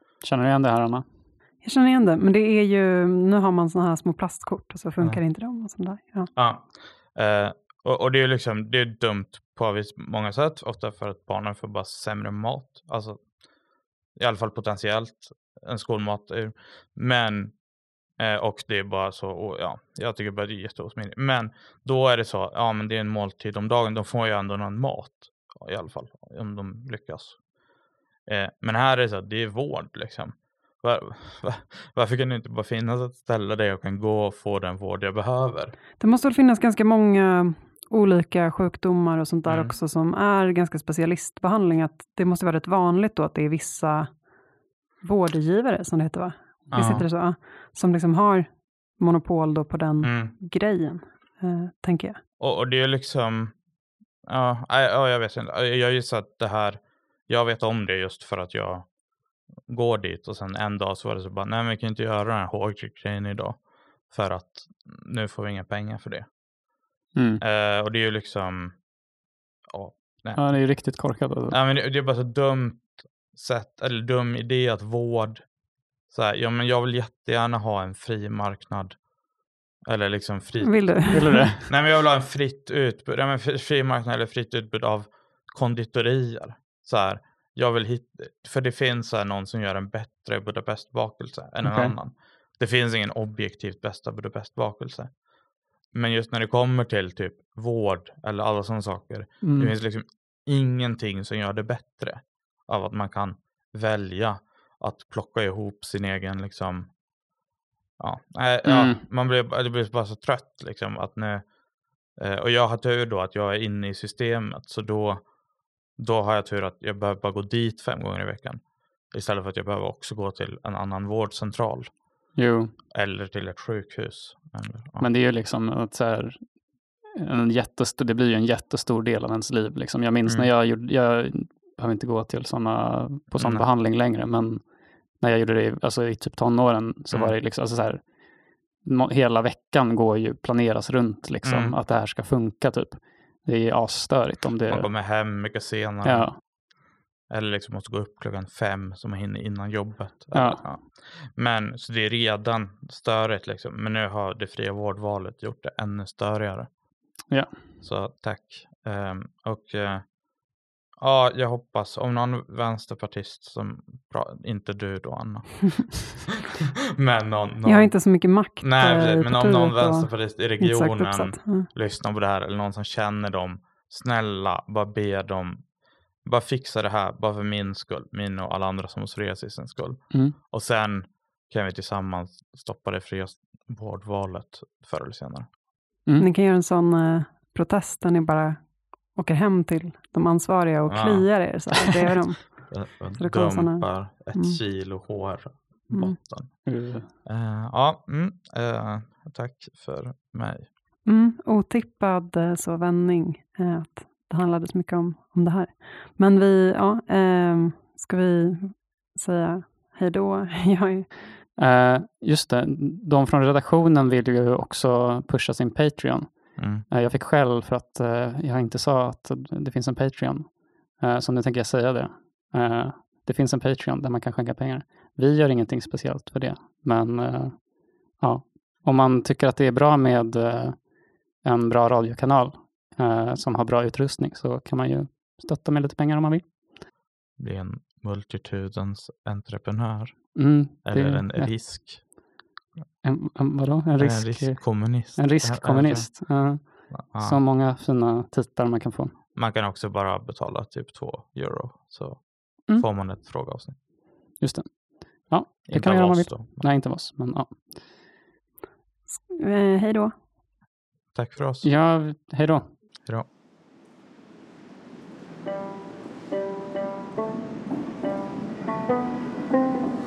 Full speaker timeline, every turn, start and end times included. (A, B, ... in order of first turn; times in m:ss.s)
0:00.2-0:01.0 A
0:01.6-0:06.3 B
0:06.4-0:13.3 C
0:14.2-0:17.6 C
0:18.2-0:27.4 C
0:28.3-0:35.8 C
0:36.0-0:44.2 B
0:39.5-0:39.8 C
0:45.0-0:52.2 B
0:46.7-0:47.1 C
0:50.0-0:50.3 C
0:52.4-0:53.6 C
0:54.2-0:58.9 C
0:59.6-1:06.3 C
1:07.2-1:07.4 A
1:07.4-1:08.8 C
1:09.7-1:15.5 C
1:10.4-1:11.6 A
1:16.1-1:19.1 C
1:19.8-1:35.2 C
1:20.6-1:21.5 B
1:21.1-1:21.7 A
1:31.6-1:32.0 A
1:35.9-1:46.9 C
1:39.4-1:39.7 A
1:48.0-1:51.5 C
1:48.6-1:49.0 A
1:52.2-1:55.3 C
1:56.0-2:01.9 C
2:02.4-2:02.7 A
2:02.9-2:05.1 C
2:05.0-2:06.5 A
2:07.1-2:14.7 A
2:13.4-2:13.6 C
2:15.2-2:18.1 A
2:18.8-2:24.9 A
2:21.4-2:21.8 C
2:24.7-2:26.5 C
2:26.0-2:26.4 A
2:27.3-2:36.7 C
2:30.3-2:30.6 A
2:37.8-2:40.1 C
2:41.0-2:46.4 C
2:46.9-2:48.1 C
2:47.6-2:51.7 B
2:48.6-2:55.7 C
2:56.2-3:05.5 C
3:00.1-3:00.4 A
3:06.2-3:14.6 B
3:10.9-3:11.4 C
3:12.7-3:20.7 C
3:15.9-3:16.2 B
3:16.6-3:17.1 A
3:21.0-3:31.3 B
3:31.6-3:50.9 A
3:36.6-3:36.8 C
3:51.4-3:56.5 A
3:57.4-4:02.1 C
4:00.4-4:01.7 A
4:03.0-4:09.1 A
4:04.0-4:07.4 C
4:09.3-4:13.8 C
4:14.4-4:17.7 A
4:15.7-4:16.7 C
4:19.2-4:20.1 B
4:21.1-4:21.7 C
4:21.6-4:22.7 A